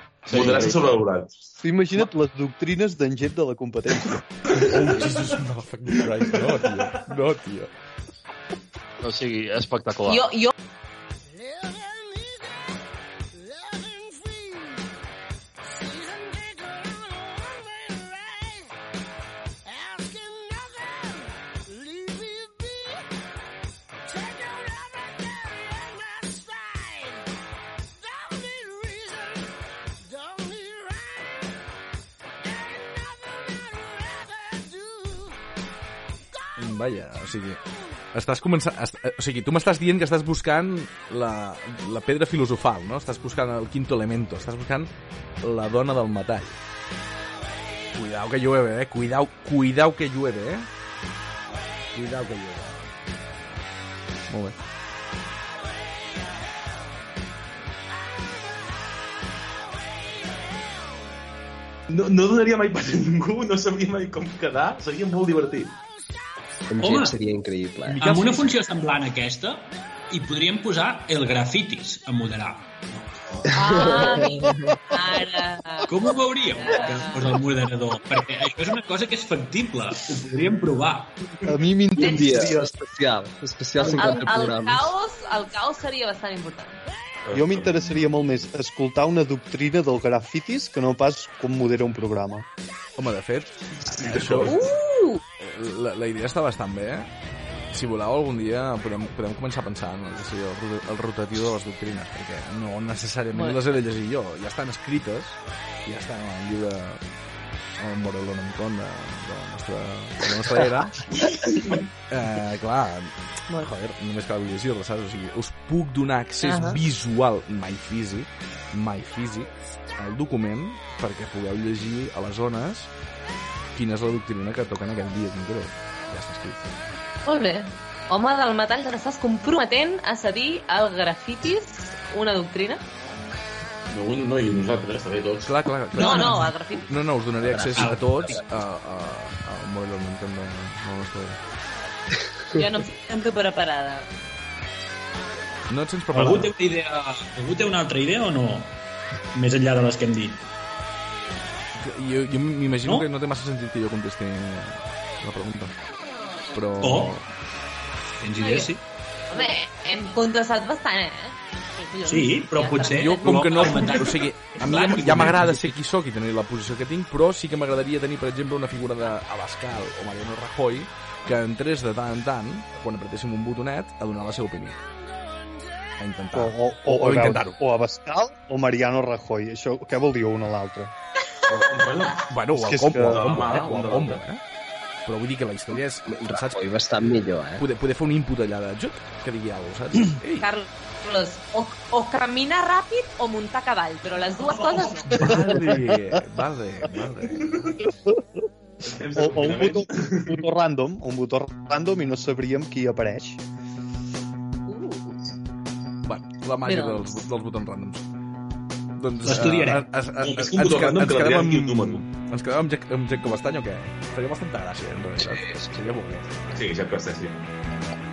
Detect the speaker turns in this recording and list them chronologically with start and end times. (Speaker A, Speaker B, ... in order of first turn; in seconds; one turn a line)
Speaker A: 0.3-1.0
Speaker B: 0.3-1.5
Speaker C: 1.6-4.3
Speaker D: 4.5-7.7
Speaker B: 4.5-4.9
Speaker B: 6.3-7.0
Speaker A: 9.0-10.3
Speaker E: 10.1-10.5
Speaker D: 36.6-37.6
Speaker D: 38.1-46.6
Speaker D: 48.0-50.7
Speaker D: 52.0-52.8
Speaker D: 54.3-54.6
Speaker B: 61.9-65.8
Speaker F: 66.7-68.0
Speaker G: 66.8-67.2
Speaker D: 67.9-68.4
Speaker G: 68.0-73.4
Speaker F: 73.5-74.8
Speaker E: 73.5-75.9
Speaker G: 75.9-81.2
Speaker E: 76.5-77.3
Speaker C: 81.5-82.7
Speaker F: 82.0-84.9
Speaker E: 82.0-82.2
Speaker E: 83.8-86.8
Speaker C: 83.9-84.3
Speaker B: 87.3-87.9
Speaker C: 87.3-92.5
Speaker D: 93.0-94.6
Speaker B: 93.8-94.6
Speaker E: 94.4-95.2
Speaker D: 95.4-97.1
Speaker D: 97.7-107.0
Speaker E: 103.3-103.6
Speaker D: 107.8-111.0
Speaker B: 111.2-111.6
Speaker D: 112.1-122.9
Speaker E: 116.4-116.8
Speaker D: 123.8-126.7
Speaker E: 127.3-132.8
Speaker B: 133.9-135.5
Speaker D: 135.4-141.4
Speaker E: 136.0-136.9
Speaker G: 136.0-136.5
Speaker F: 137.4-138.4
Speaker G: 137.7-138.4
Speaker E: 142.5-144.1
Speaker D: 145.7-146.5
Speaker G: 146.1-148.8
Speaker G: 149.3-150.4
Speaker D: 151.8-155.7
Speaker D: 156.5-157.2
Speaker G: 156.8-157.2
Speaker G: 158.2-158.8
Speaker E: 158.4-158.7
Speaker E: 159.3-164.1
Speaker G: 162.1-165.7
Speaker D: 162.9-174.8
Speaker D: 176.0-177.6
Speaker C: 176.3-180.9
Speaker B: 181.5-182.3
Speaker D: 182.3-184.4
Speaker C: 182.5-183.6
Speaker B: 183.0-184.2
Speaker D: 185.1-186.6
Speaker F: 186.1-187.7
Speaker D: 187.6-190.5
Speaker E: 190.4-195.3
Speaker D: 195.1-197.5
Speaker C: 195.3-195.9
Speaker B: 198.8-200.4
Speaker C: 199.2-203.4
Speaker E: 204.7-205.2
Speaker D: 206.1-208.1
Speaker E: 206.7-207.2
Speaker D: 209.0-216.3
Speaker G: 209.2-209.9
Speaker B: 210.2-212.0
Speaker F: 215.2-215.7
Speaker B: 216.5-217.4